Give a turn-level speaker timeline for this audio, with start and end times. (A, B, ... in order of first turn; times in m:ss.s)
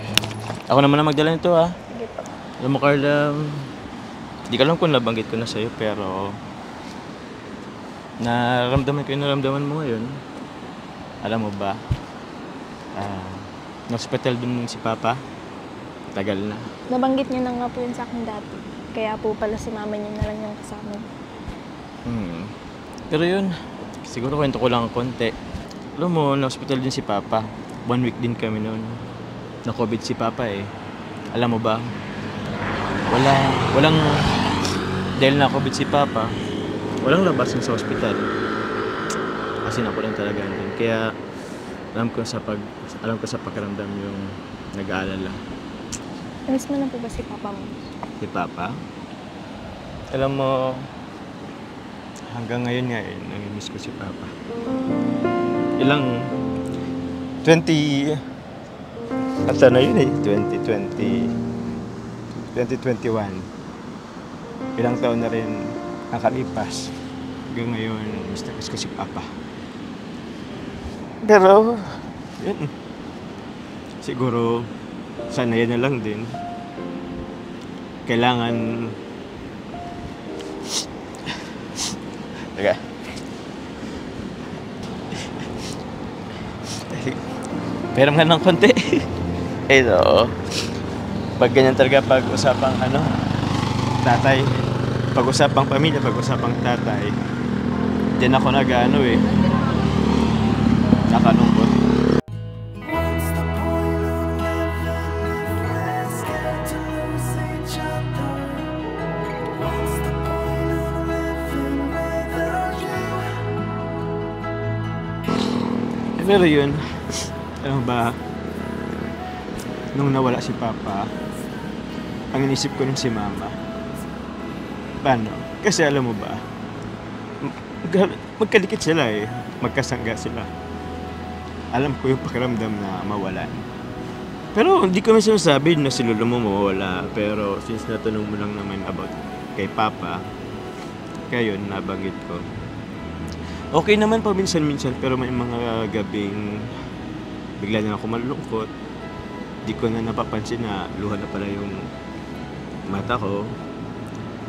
0:00.7-0:01.8 A
0:01.9-0:02.4 B
0:02.6-0:03.7 A
0:04.5-0:06.3 A
0:08.2-0:10.1 A
0:11.2-0:11.8 A
0:13.0-0:15.2 A
0:16.1-0:16.7 A
0:16.9-0:21.1 B
0:22.1-0:22.5 A
0:23.1-0:23.5 A
0:24.0-0:25.3 A
0:26.0-0:29.0 A
0:29.7-0:30.7 A
0:31.3-0:31.9 A
0:33.1-0:34.2 A
0:35.2-0:36.3 A
0:37.0-0:38.3 A
0:39.6-0:41.1 A
0:42.0-0:45.4 A
0:46.5-0:47.8 B
0:48.2-0:48.8 A
0:50.1-0:50.8 A
0:52.3-0:54.3 A
0:55.8-0:56.3 A
0:57.4-0:58.2 A
0:59.5-1:01.3 A
1:02.4-1:03.5 A
1:04.8-1:06.9 A
1:07.5-1:09.3 A
1:11.2-1:12.7 A
1:14.0-1:14.7 A
1:15.3-1:16.3 A
1:18.1-1:19.0 A
1:22.6-1:22.8 A
1:26.9-1:27.2 A
1:27.9-1:29.1 A
1:29.7-1:30.4 A
1:31.4-1:33.1 A
1:34.0-1:34.5 A
1:35.1-1:37.2 A
1:38.1-1:39.3 A
1:41.1-1:41.7 A
1:56.2-1:58.2 A
1:59.9-2:01.1 A
2:02.3-2:03.6 A
2:05.0-2:06.4 A
2:07.4-2:10.5 A
2:11.7-2:13.6 A
2:14.5-2:20.2 A
2:21.3-2:22.4 A
2:23.7-2:26.5 A
2:27.6-2:28.7 A
2:29.6-2:31.8 A
2:32.9-2:33.5 A